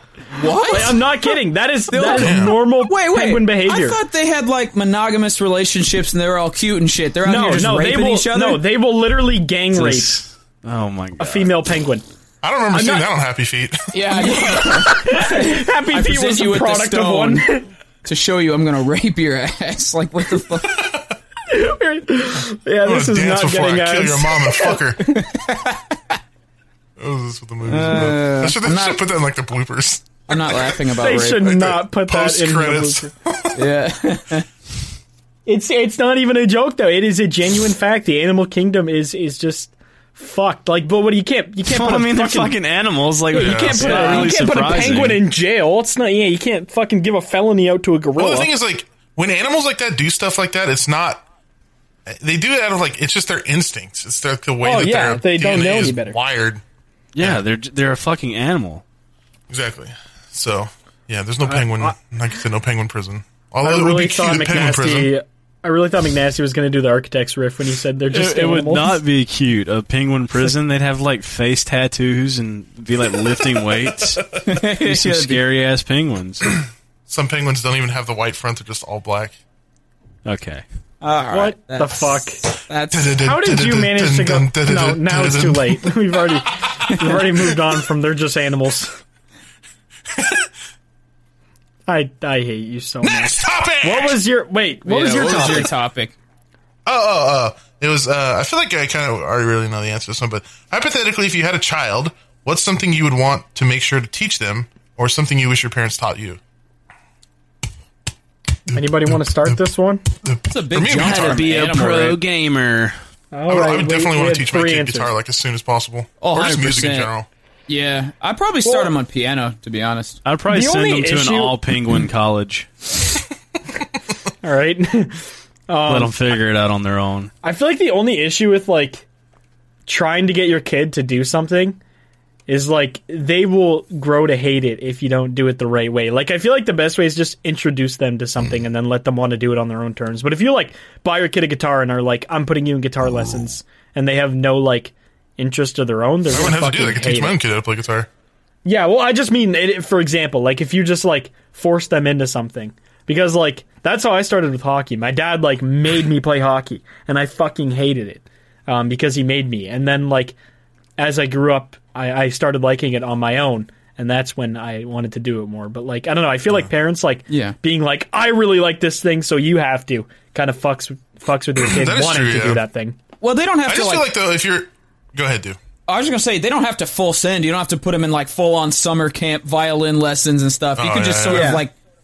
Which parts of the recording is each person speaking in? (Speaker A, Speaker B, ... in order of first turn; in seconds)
Speaker A: 0.3-1.3, 1.9-8.6, 13.9-17.5, 18.0-20.9, 25.2-26.0, 27.7-29.0, 30.3-31.5, 33.5-34.5, 43.8-44.3, 74.5-75.4, 81.0-83.2, 94.8-96.1, 110.5-112.2, 116.2-117.1, 117.7-120.2, 167.3-167.6, 173.2-174.1, 175.9-181.7
Speaker B: 0.7-4.0, 7.2-10.2, 11.2-12.0, 12.7-13.1, 14.1-17.7, 21.5-25.2, 31.0-33.1, 35.5-42.6, 43.3-48.5, 54.6-56.2, 61.5-62.0, 63.6-69.0, 81.3-82.4, 83.2-89.0, 91.9-95.7, 108.7-110.1, 113.3-115.1, 118.6-118.9, 120.5-121.6, 124.4-126.2, 127.4-129.1, 129.9-131.8, 132.5-147.4, 148.7-160.3, 161.0-173.0, 181.3-181.7
Speaker C: 2.2-2.6, 12.4-14.0, 22.8-25.2, 27.0-30.8, 31.3-33.7, 43.4-44.0, 48.1-51.2, 52.1-56.6, 59.5-65.1, 77.1-79.4, 82.9-86.0, 90.2-90.5, 93.0-94.2, 96.9-106.4, 108.7-109.6, 110.2-111.5, 113.5-117.3, 146.3-148.1, 171.6-172.6, 173.7-175.6, 180.8-181.6
Speaker D: 9.7-11.5, 41.7-45.2, 57.1-58.8, 68.1-76.5, 80.2-80.6, 111.0-113.0, 120.2-122.7, 125.9-127.3